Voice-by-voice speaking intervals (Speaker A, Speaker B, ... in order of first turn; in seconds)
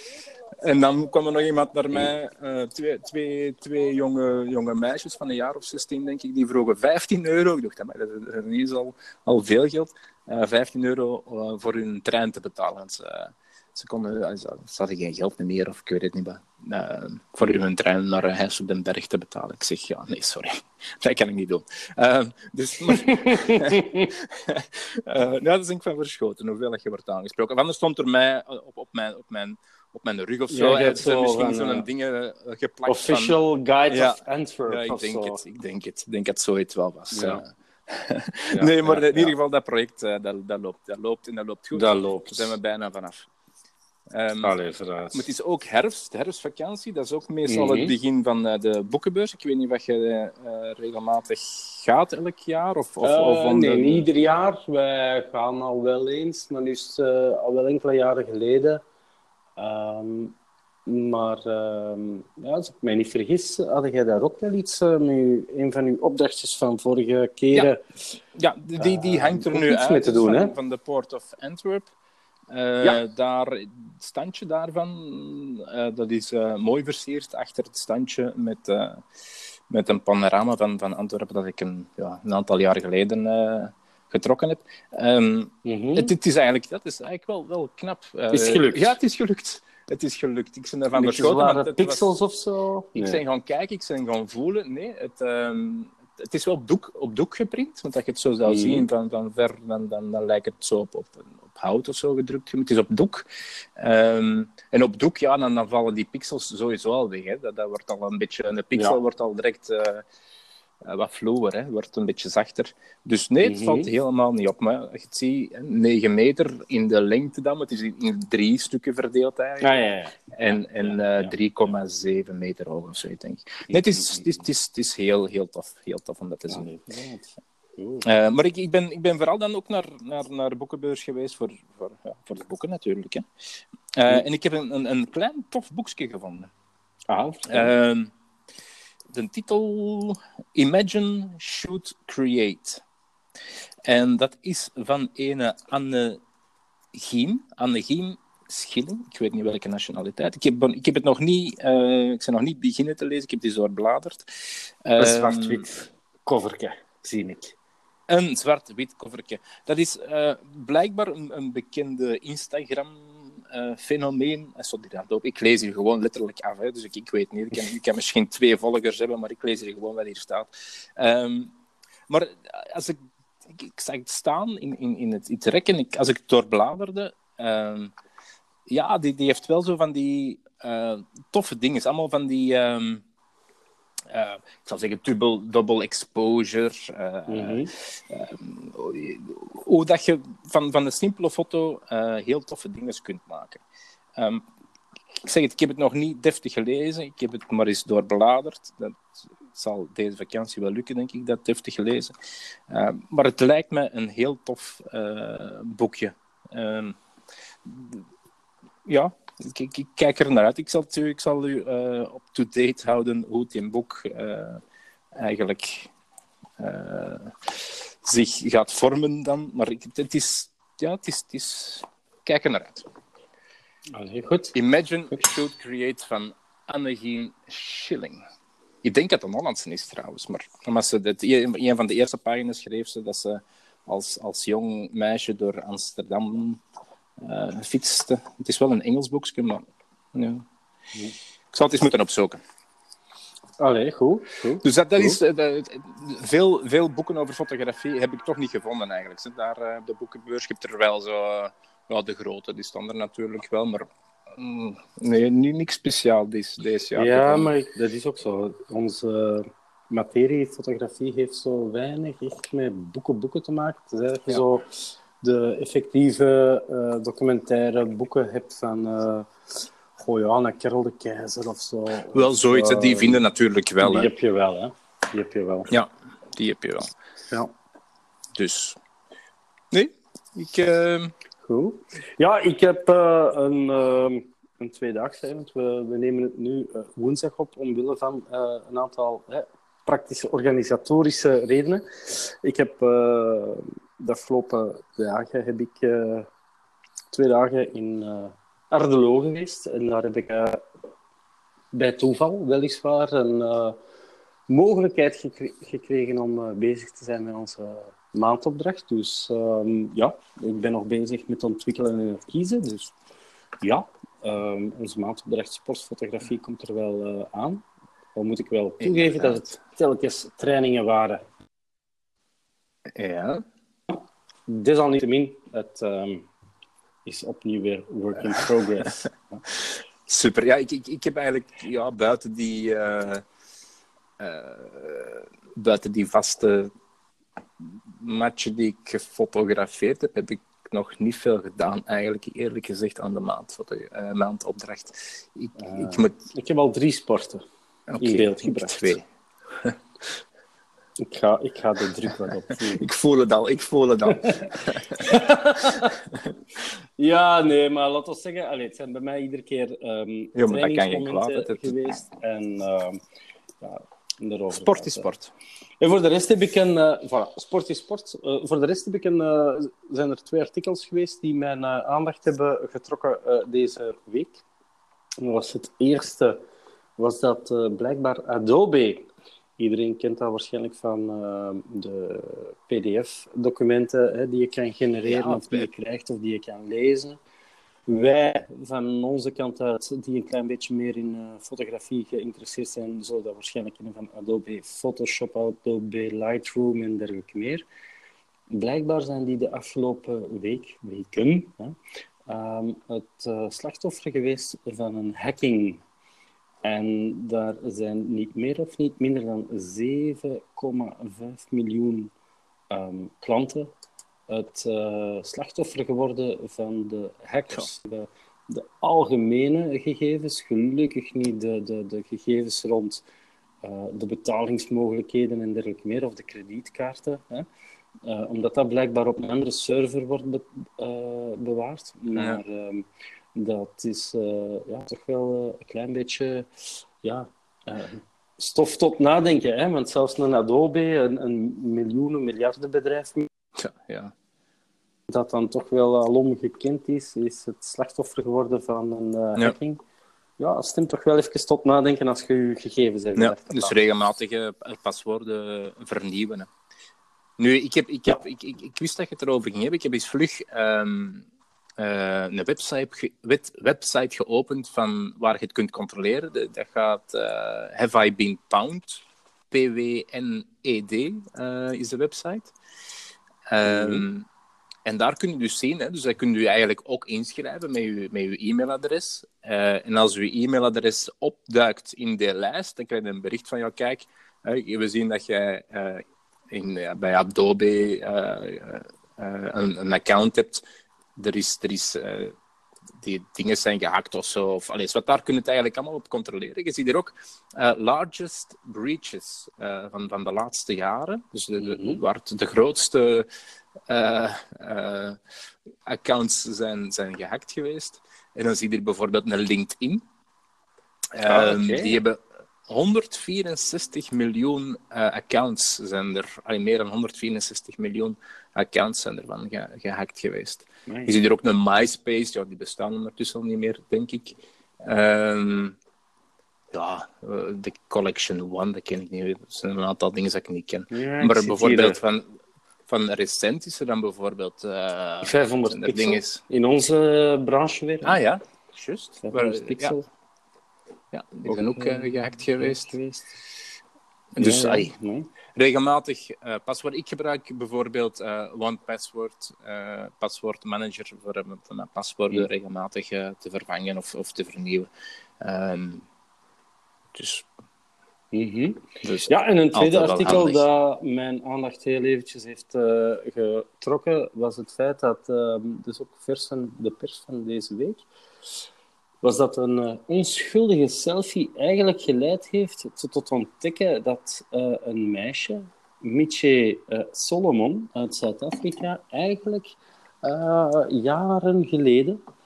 Speaker A: 0.6-33.4, 33.9-43.3, 44.1-44.5, 45.1-54.1, 68.4-71.9, 72.5-79.0, 79.7-92.1, 93.0-103.3, 103.8-110.0, 110.8-119.7, 120.3-126.7, 128.0-133.2, 133.9-136.5, 137.5-138.1, 139.1-142.8, 143.9-146.2, 146.9-155.7, 158.1-171.5, 172.1-177.9, 178.7-183.0, 184.1-193.6, 194.2-194.4, 195.2-202.1, 202.7-207.0, 207.7-208.0, 208.9-214.6, 215.2-215.9, 216.6-222.8, 224.5-228.2, 228.8-236.6, 237.2-240.4, 241.5-242.4, 244.6-257.5, 272.1-274.1, 275.7-276.9, 278.4-278.8, 279.7-281.1, 318.8-319.5, 322.9-323.4, 329.7-333.2, 334.2-336.7, 337.6-346.2, 347.9-349.0, 352.5-355.2, 355.8-356.3, 360.4-362.0, 364.5-365.3, 385.1-385.7, 432.1-432.4, 443.6-444.1, 453.2-456.5, 457.4-461.2, 461.8-472.5, 473.5-474.3, 474.9-490.6, 491.2-492.3, 493.0-503.3, 503.9-505.2, 505.9-510.0, 511.1-525.8, 526.7-532.3, 532.9-536.4, 538.0-540.0, 541.1-543.0, 544.4-544.9, 545.5-554.9, 555.4-556.1, 557.1-557.5, 559.0-560.6
Speaker B: 23.0-24.1, 30.5-31.9, 32.9-35.4, 37.1-37.4, 38.5-39.3, 41.7-42.6, 44.4-45.3, 47.5-47.9, 53.0-58.8, 59.6-60.4, 60.9-67.8, 68.8-70.5, 85.7-86.1, 88.3-89.0, 91.0-93.2, 98.5-98.9, 108.7-109.0, 113.4-113.9, 119.6-121.3, 123.7-124.3, 126.5-128.1, 137.1-137.7, 155.0-157.6, 187.3-187.7, 223.9-224.6, 243.6-245.2, 257.0-273.2, 273.8-275.7, 281.4-296.3, 297.1-300.6, 301.7-303.8, 304.5-312.9, 313.6-317.6, 318.1-321.2, 324.5-326.3, 327.1-329.4, 345.6-347.4, 348.0-349.0, 351.0-352.8, 354.1-356.0, 357.0-363.0, 363.6-365.1, 365.8-374.4, 375.2-376.4, 377.0-387.2, 387.9-397.7, 398.5-401.8, 402.3-405.8, 406.6-412.1, 412.7-413.7, 414.3-423.0, 423.6-427.5, 428.1-443.3, 445.1-449.8, 450.4-453.8, 473.6-474.1, 501.6-502.0, 511.3-512.0, 520.9-521.1, 530.9-532.0, 535.2-538.2, 539.2-540.1, 541.5-543.4, 544.4-545.3, 558.3-568.1, 569.2-582.2